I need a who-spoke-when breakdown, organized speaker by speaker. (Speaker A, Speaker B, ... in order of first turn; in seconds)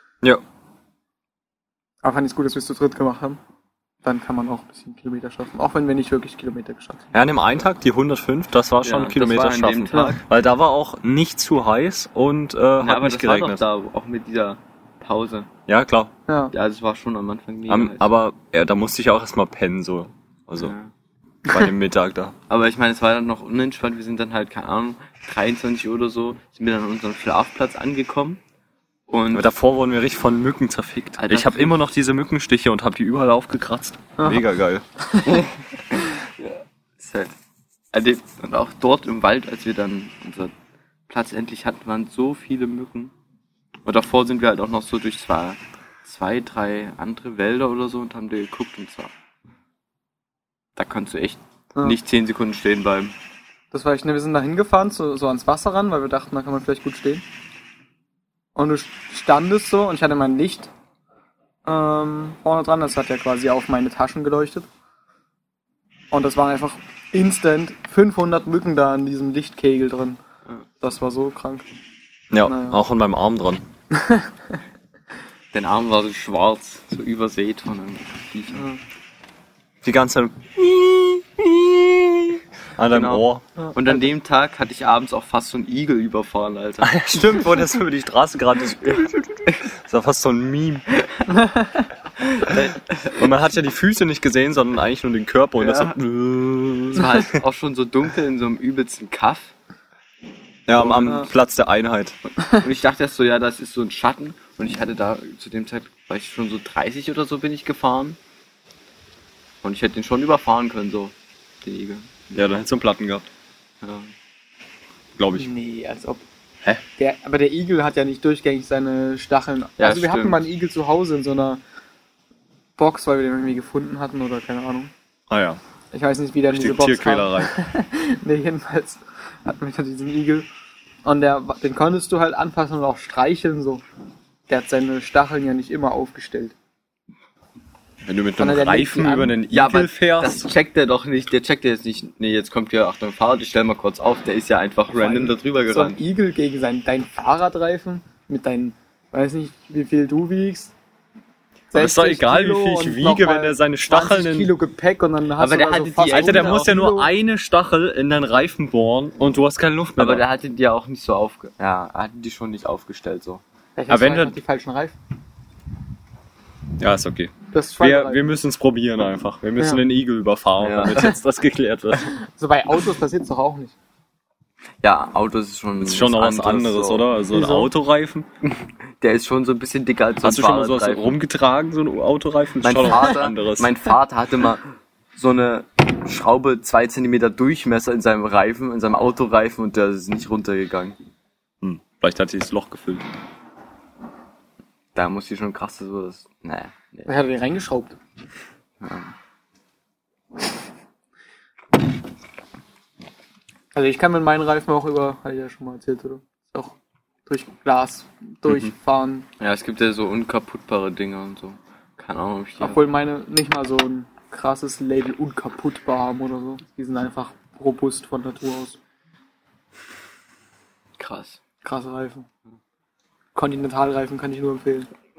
Speaker A: 2.0-3.4, 4.0-7.1, 16.3-16.5, 34.2-34.4, 35.1-35.4, 53.7-57.2, 58.5-60.7, 61.6-64.7, 66.1-70.2, 70.8-71.7, 72.4-72.8, 73.9-74.3, 78.5-78.8, 83.6-83.9, 91.3-91.9, 115.3-116.2, 116.9-121.6, 122.8-124.9, 125.9-130.5, 131.0-133.8, 134.5-136.5, 138.4-139.4, 144.9-150.7, 151.7-157.1, 163.8-164.9, 167.5-168.2, 172.1-173.8, 177.3-177.7, 197.1-198.0, 203.7-206.7, 207.2-209.3, 212.6-218.8, 221.6-222.3, 223.3-224.9
Speaker B: 7.1-13.6, 15.7-16.1, 17.7-20.7, 21.5-22.4, 29.3-35.4, 72.3-73.7, 79.8-83.4, 86.8-90.8, 93.1-97.4, 100.7-102.2, 112.3-113.2, 115.2-115.5, 125.3-125.6, 126.5-127.5, 138.0-140.5, 151.8-154.5, 156.1-160.2, 163.9-164.4, 166.8-172.1, 175.8-178.3, 180.2-183.8, 191.6-193.0
Speaker C: 8.8-10.2, 12.8-15.5, 16.5-18.1, 20.6-20.9, 22.5-28.4, 29.1-29.5, 31.2-31.7, 35.4-37.3, 37.9-40.5, 41.1-43.1, 43.8-49.1, 50.8-53.1, 75.5-78.7, 82.9-87.0, 89.0-89.6, 92.2-93.2, 95.6-96.0, 96.9-99.5, 100.7-101.2, 102.5-108.2, 109.6-112.3, 113.8-114.1, 119.8-120.5, 139.5-146.0, 155.4-156.7, 160.0-163.4, 170.6-171.1, 174.8-177.1, 178.4-181.1, 182.6-191.0, 194.9-197.1, 198.8-199.1, 209.4-212.8, 221.0-221.4